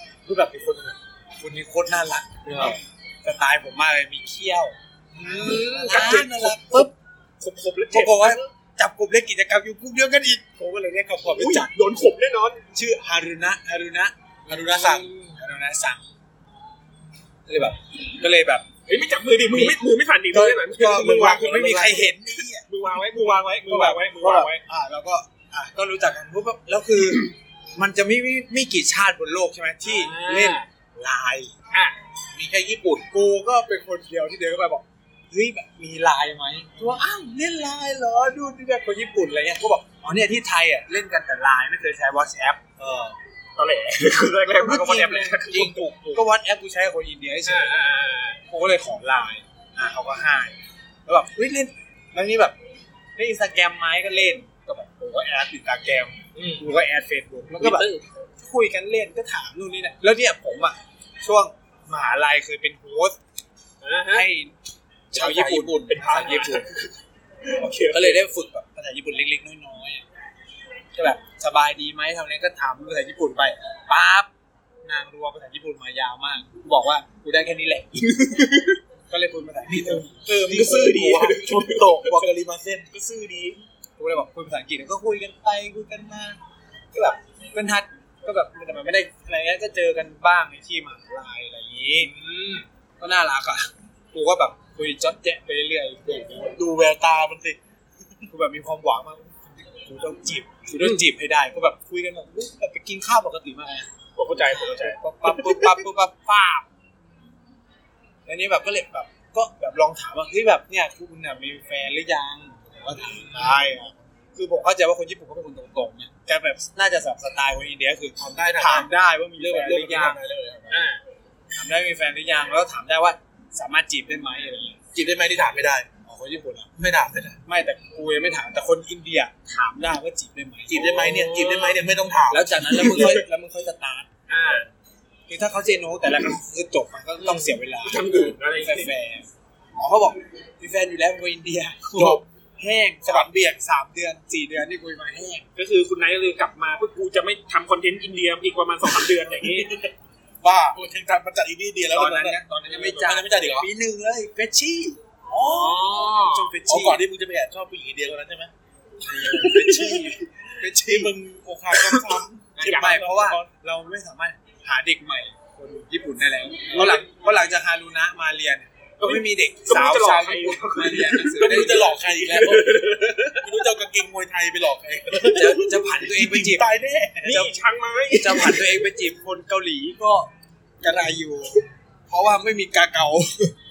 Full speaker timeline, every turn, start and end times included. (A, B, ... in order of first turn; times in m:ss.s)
0:00.2-0:06.9 A
0:05.1-0:08.5 B
0:05.9-0:06.2 C
0:07.9-0:11.7 A
0:11.3-0:12.6 B
0:12.7-0:16.0 A
0:14.5-0:15.1 C
0:14.7-0:15.4 B
0:17.5-0:18.6 A
0:18.9-0:24.6 B
0:20.3-0:31.5 A
0:20.4-0:22.1 C
0:29.8-0:30.6 B
0:32.3-0:33.1 C
0:33.1-0:42.6 A
0:42.8-0:43.2 C
0:43.6-0:45.8 B
0:44.6-0:47.8 A
0:45.5-0:46.2 C
0:47.5-0:48.4 B
0:48.5-0:52.6 A
0:53.2-0:57.9 A
0:56.3-0:56.6 B
0:57.6-0:58.0 B
0:58.4-1:03.2 A
1:03.8-1:04.3 B
1:04.1-1:04.5 A
1:05.1-1:06.0 C
1:05.1-1:06.7 A
1:05.9-1:06.9 B
1:07.5-1:08.2 B
1:07.9-1:10.0 A
1:10.9-1:14.3 A
1:14.8-1:20.2 A
1:19.7-1:22.9 C
1:20.1-1:22.3 B
1:22.9-1:23.6 B
1:24.0-1:26.4 A
1:26.9-1:32.1 A
1:32.0-1:32.7 B
1:33.0-1:36.6 A
1:36.5-1:37.6 C
1:38.3-1:46.7 A
1:44.2-1:45.0 B
1:48.2-2:00.2 A
1:53.2-1:53.6 B
1:58.2-2:00.8 C
2:00.7-2:01.0 B
2:01.5-2:04.8 A
2:04.9-2:05.9 C
2:06.0-2:06.7 A
2:06.8-2:07.4 C
2:07.4-2:10.8 A
2:10.7-2:13.2 C
2:10.8-2:11.8 B
2:12.3-2:14.1 A
2:12.7-2:13.2 B
2:14.3-2:14.7 B
2:15.3-2:25.4 A
2:17.2-2:18.9 B
2:22.0-2:22.2 C
2:23.0-2:23.6 C
2:25.6-2:29.7 B
2:28.9-2:33.7 C
2:31.9-2:35.5 A
2:32.7-2:33.0 B
2:35.3-2:35.8 C
2:35.3-2:36.5 B
2:36.2-2:37.0 A
2:36.7-2:38.5 C
2:39.0-2:41.1 A
2:39.2-2:43.5 C
2:42.6-2:43.2 B
2:42.6-2:51.9 A
2:46.7-2:47.0 B
2:49.0-2:53.7 B
2:51.4-2:57.4 C
2:55.2-2:56.6 A
2:57.2-2:58.8 B
2:57.3-2:57.6 A
2:58.1-3:00.3 A
3:00.8-3:03.6 A